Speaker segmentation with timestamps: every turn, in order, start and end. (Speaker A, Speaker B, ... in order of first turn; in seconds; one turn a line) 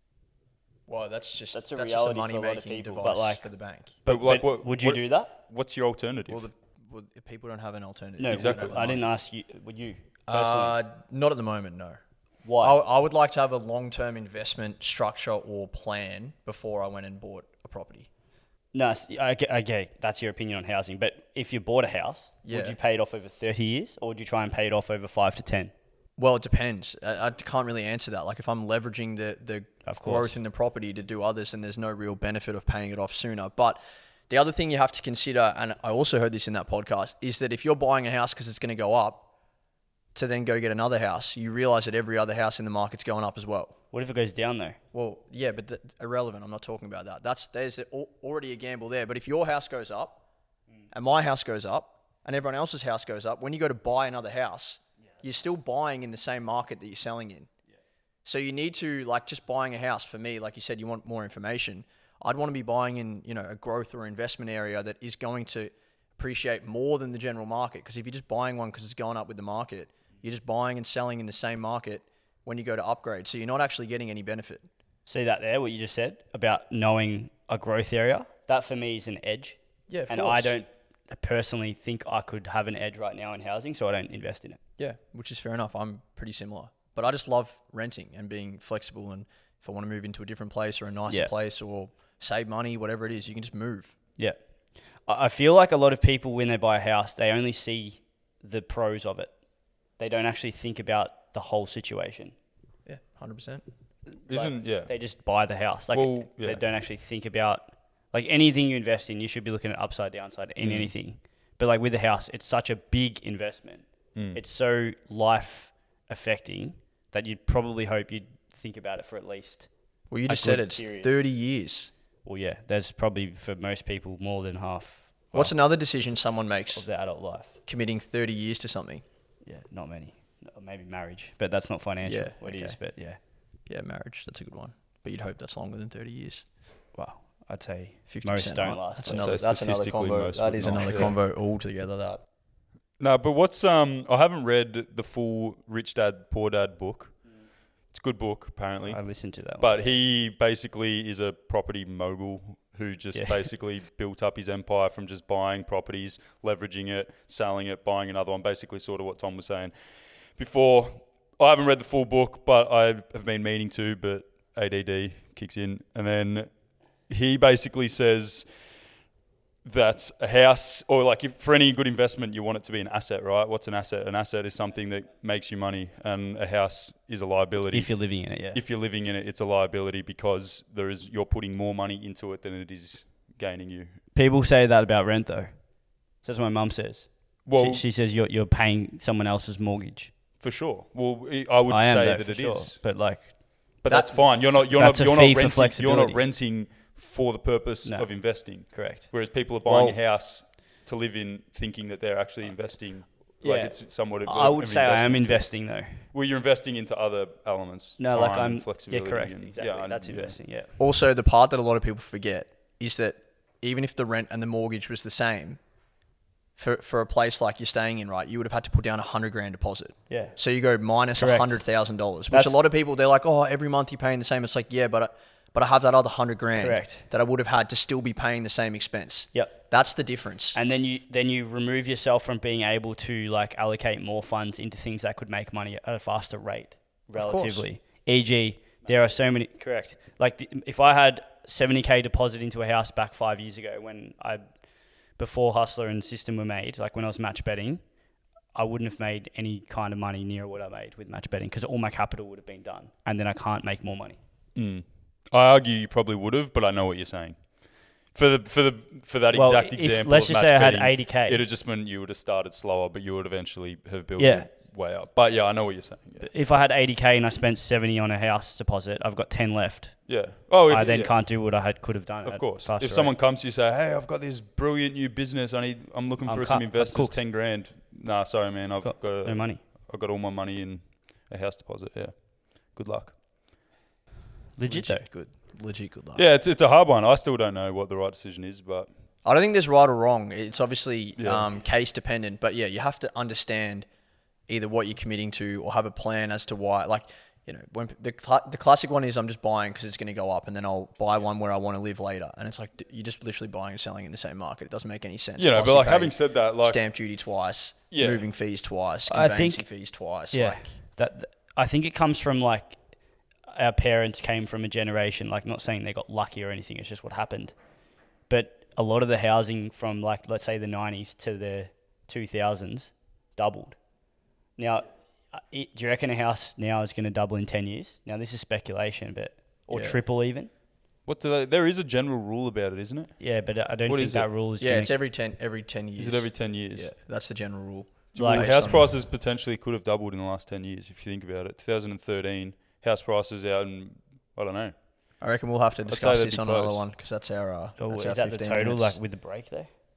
Speaker A: 0.9-4.0
Speaker B: 1.5-3.5
Speaker C: 4.1-6.5
Speaker B: 4.1-5.3
Speaker A: 6.3-9.1
Speaker B: 8.2-10.8
Speaker C: 8.3-8.9
Speaker A: 10.3-12.0
Speaker B: 12.4-12.8
Speaker A: 12.6-18.1
Speaker B: 18.7-25.7
Speaker A: 22.4-22.8
Speaker A: 26.2-39.3
Speaker B: 29.9-30.4
Speaker A: 40.1-43.7
Speaker B: 43.9-44.8
Speaker A: 44.9-50.2
Speaker A: 50.9-57.5
Speaker A: 58.2-74.7
Speaker B: 75.1-84.6
Speaker A: 79.9-80.6
Speaker A: 84.8-94.0
Speaker B: 95.1-99.3
Speaker B: 100.0-102.3
Speaker A: 102.9-103.6
Speaker C: 104.3-104.9
Speaker B: 104.3-119.7
Speaker C: 105.9-106.6
Speaker C: 110.6-110.9
Speaker C: 114.2-114.4
Speaker A: 120.1-121.9
Speaker B: 120.3-121.1
Speaker B: 122.2-125.6
Speaker A: 125.3-126.9
Speaker B: 126.7-127.5
Speaker A: 127.7-129.0
Speaker B: 129.4-133.2
Speaker A: 132.0-132.8
Speaker A: 133.7-136.4
Speaker B: 136.9-139.3
Speaker A: 138.1-142.2
Speaker C: 139.1-141.2
Speaker C: 143.0-147.2
Speaker C: 147.9-149.0
Speaker B: 148.8-149.8
Speaker C: 149.6-159.7
Speaker B: 153.1-153.5
Speaker C: 160.3-166.5
Speaker C: 167.1-168.5
Speaker C: 169.7-184.0
Speaker B: 177.7-178.6
Speaker B: 184.1-185.6
Speaker B: 186.2-190.1
Speaker C: 187.5-187.8
Speaker C: 190.4-192.8
Speaker B: 191.7-193.3
Speaker C: 193.8-205.5
Speaker A: 193.9-194.3
Speaker B: 194.7-196.2
Speaker B: 197.8-199.1
Speaker B: 199.6-200.0
Speaker B: 203.4-206.1
Speaker C: 206.1-210.4
Speaker B: 208.0-210.7
Speaker A: 210.8-215.6
Speaker A: 216.6-230.6
Speaker B: 220.1-220.3
Speaker B: 221.2-221.6
Speaker B: 222.3-222.6
Speaker B: 226.6-227.1
Speaker B: 230.6-244.4
Speaker A: 237.2-237.7
Speaker B: 245.2-247.8
Speaker B: 248.5-254.2
Speaker C: 254.6-266.3
Speaker B: 259.3-261.4
Speaker B: 264.2-264.5
Speaker B: 266.2-270.1
Speaker C: 270.1-271.2
Speaker B: 270.7-273.2
Speaker C: 272.3-283.2
Speaker B: 276.3-277.2
Speaker B: 278.8-279.6
Speaker B: 284.6-285.1
Speaker A: 284.6-286.2
Speaker C: 286.1-288.9
Speaker A: 289.2-293.9
Speaker C: 291.2-291.5
Speaker A: 294.5-310.7
Speaker C: 305.4-306.8
Speaker C: 307.9-308.2
Speaker B: 309.1-309.7
Speaker B: 310.3-312.8
Speaker B: 313.5-317.6
Speaker B: 318.3-323.8
Speaker B: 324.6-330.5
Speaker A: 329.7-330.0
Speaker C: 331.1-333.2
Speaker B: 333.2-335.0
Speaker C: 333.9-334.3
Speaker A: 334.6-338.9
Speaker C: 336.0-336.9
Speaker C: 338.1-344.8
Speaker B: 338.2-338.6
Speaker A: 345.2-349.0
Speaker C: 345.9-346.9
Speaker B: 347.8-349.7